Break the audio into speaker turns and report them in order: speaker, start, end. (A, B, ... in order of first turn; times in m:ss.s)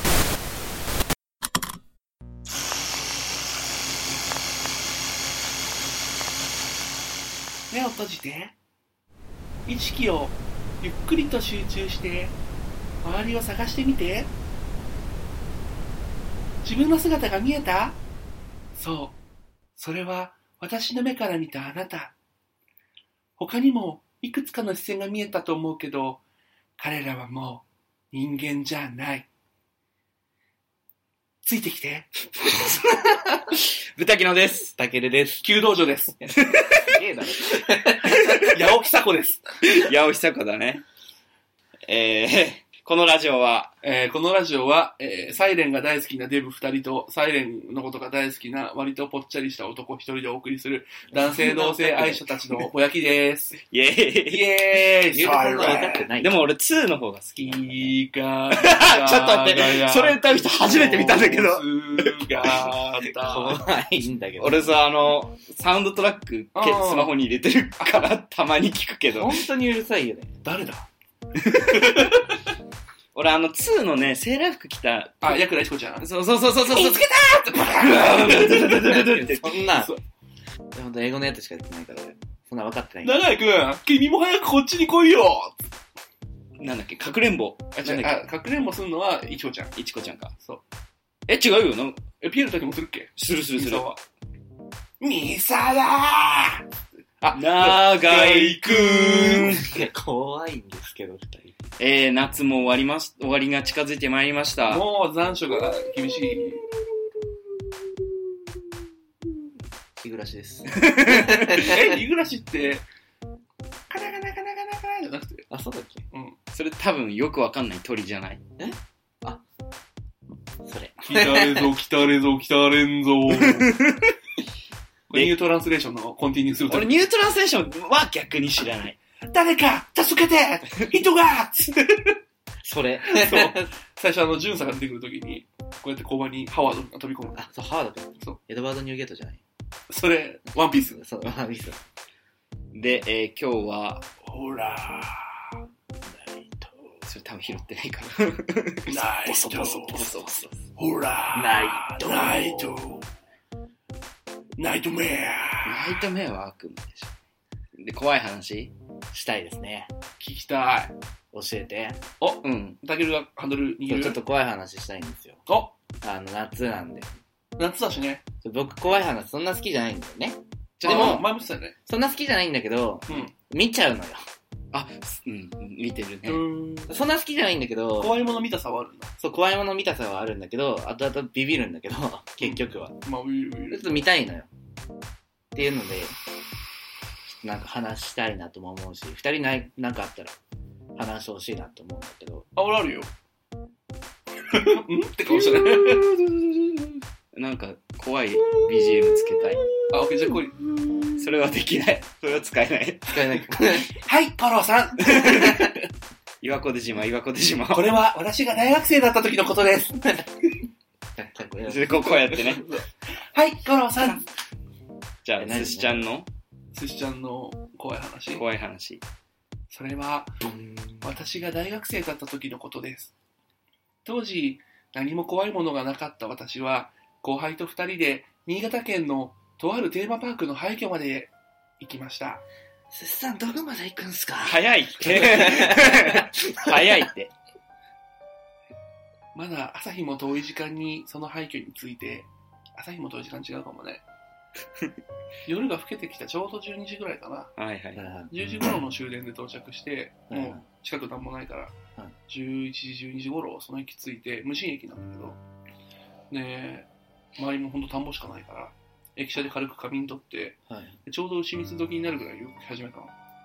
0:07.7-0:08.6 A
0:09.7-0:12.4 A
0:13.0-0:14.3 A
0:16.6-0:18.0 A
0:18.8-0:19.2 A
0:19.8-0:22.2 A
0:23.4-0:26.2 A
0:26.8-0:29.3 A
0:31.4-0:32.1 A
0:33.9-0:34.7 B
0:34.8-0:35.5 C
0:35.4-0:36.2 A
0:36.2-0:38.2 C
0:36.4-0:37.0 B
0:38.0-0:39.9 A
0:39.7-0:40.8 B
0:41.9-0:43.7 B
0:43.8-0:53.6 A
0:51.1-0:52.2 C
0:53.6-0:54.8 B
0:54.3-0:56.1 A
0:55.1-0:56.4 C
0:56.2-0:58.0 B
0:57.4-1:03.6 A
0:58.5-1:02.7 B
1:03.2-1:04.8 C
1:04.4-1:09.4 B
1:06.6-1:07.2 A
1:07.8-1:08.1 A
1:09.1-1:10.3 C
1:10.4-1:10.9 A
1:11.5-1:12.4 A
1:11.5-1:12.1 B
1:13.1-1:15.4 B
1:15.2-1:19.1 A
1:16.0-1:19.6 B
1:18.9-1:19.9 C
1:20.7-1:23.2 C
1:23.0-1:25.6 A
1:26.6-1:28.2 B
1:27.8-1:29.7 A
1:29.8-1:30.3 B
1:31.3-1:32.0 B
1:32.2-1:34.0 A
1:33.2-1:33.9 B
1:35.0-1:36.6 A
1:37.2-1:39.7 A
1:37.4-1:39.7 B
1:39.6-1:41.6 C
1:41.8-1:44.8 B
1:44.6-1:46.6 A
1:47.0-1:48.0 C
1:50.0-1:52.0 C
1:50.7-1:51.5 B
1:51.4-1:52.8 A
1:53.9-1:55.5 A
1:55.5-1:56.0 C
1:56.1-1:56.4 A
1:56.5-1:58.4 B
1:58.6-1:59.4 C
2:00.6-2:01.7 C
2:01.1-2:03.7 A
2:03.7-2:04.0 B
2:05.1-2:07.1 A
2:06.7-2:09.0 B
2:09.3-2:12.2 A
2:12.6-2:13.7 C
2:13.1-2:17.4 A
2:17.3-2:19.4 C
2:19.9-2:21.0 A
2:20.7-2:21.8 C
2:22.7-2:24.1 B
2:24.2-2:25.3 A
2:26.0-2:26.8 C
2:27.1-2:30.6 B
2:28.9-2:30.1 A
2:30.8-2:33.0 A
2:31.4-2:32.8 C
2:34.6-2:36.0 A
2:35.6-2:37.1 B
2:37.8-2:38.7 B
2:39.1-2:39.9 C
2:40.2-2:40.9 A
2:41.3-2:42.0 C
2:42.2-2:44.2 A
2:42.4-2:42.8 B
2:43.8-2:45.4 C
2:45.5-2:45.7 A
2:46.0-2:47.1 C
2:47.6-2:48.2 A
2:48.4-2:51.2 C
2:50.8-2:51.2 B
2:50.8-2:51.8 A
2:51.9-2:54.2 C
2:53.1-2:53.3 A
2:54.7-2:56.4 B
2:56.3-2:57.0 A
2:56.9-2:58.2 C
2:58.0-2:59.1 A
2:59.2-3:03.0 C
3:02.4-3:03.9 A
3:03.7-3:04.5 C
3:05.5-3:06.2 C
3:07.4-3:10.4 C
3:11.0-3:12.5 C
3:12.6-3:13.1 A
3:14.5-3:16.1 A
3:15.7-3:16.7 B
3:17.3-3:19.7 B
3:19.9-3:20.6 A
3:21.2-3:23.4 B
3:23.1-3:23.9 C
3:23.8-3:25.8 A
3:25.0-3:25.7 B
3:25.3-3:25.7 C
3:26.4-3:28.0 B
3:27.7-3:30.3 A
3:31.2-3:32.4 C
3:31.7-3:32.7 B
3:32.3-3:34.2 A
3:35.2-3:36.3 B
3:35.4-3:36.1 C
3:36.7-3:38.4 A
3:38.3-3:39.0 B
3:39.7-3:40.4 A
3:40.4-3:41.3 C
3:41.0-3:43.1 A
3:44.0-3:52.4 A
3:52.9-3:56.9 C
3:54.4-3:57.3 B
3:59.4-4:04.0 A
4:05.5-4:07.5 A
4:07.6-4:08.0 B
4:08.0-4:08.3 C
4:08.3-4:11.8 A
4:10.3-4:10.6 C
4:12.3-4:15.4 A
4:16.3-4:23.1 A
4:20.7-4:21.0 C